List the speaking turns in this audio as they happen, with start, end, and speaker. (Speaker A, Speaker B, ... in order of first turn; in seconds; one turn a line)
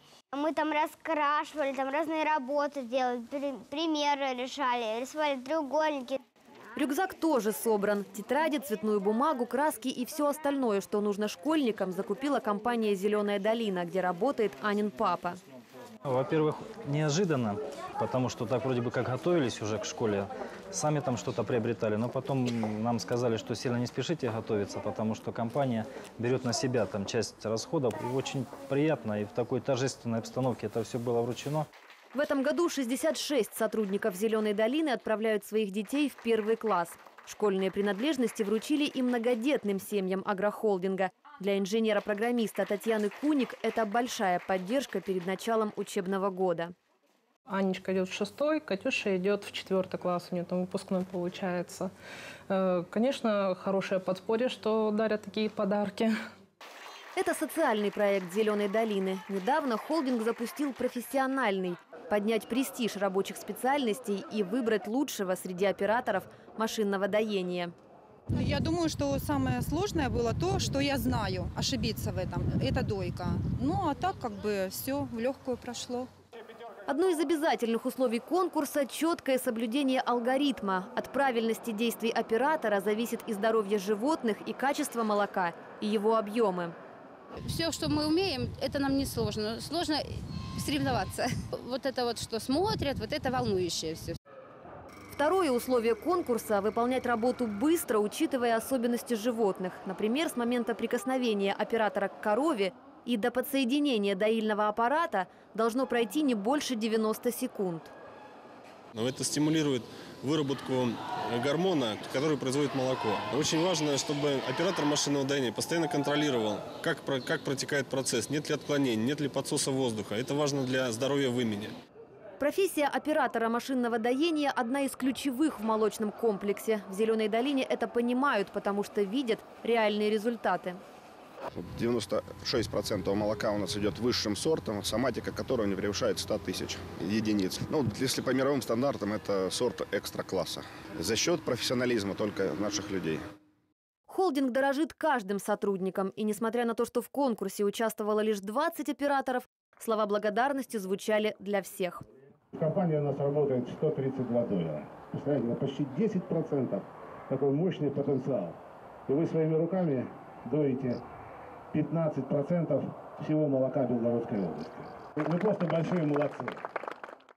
Speaker A: 0.3-6.2
Speaker B: 6.8-15.4
Speaker C: 16.1-31.7
Speaker B: 32.1-46.7
Speaker D: 47.5-51.9
Speaker D: 52.5-56.1
Speaker B: 57.1-67.7
Speaker E: 68.3-76.1
Speaker B: 76.9-86.7
Speaker F: 87.5-90.0
Speaker F: 90.6-94.2
Speaker B: 95.1-107.9
Speaker G: 108.9-121.7
Speaker B: 122.4-130.8
Speaker H: 131.5-143.2
Speaker B: 144.1-152.0
Speaker I: 152.5-161.0
Speaker I: 161.7-166.6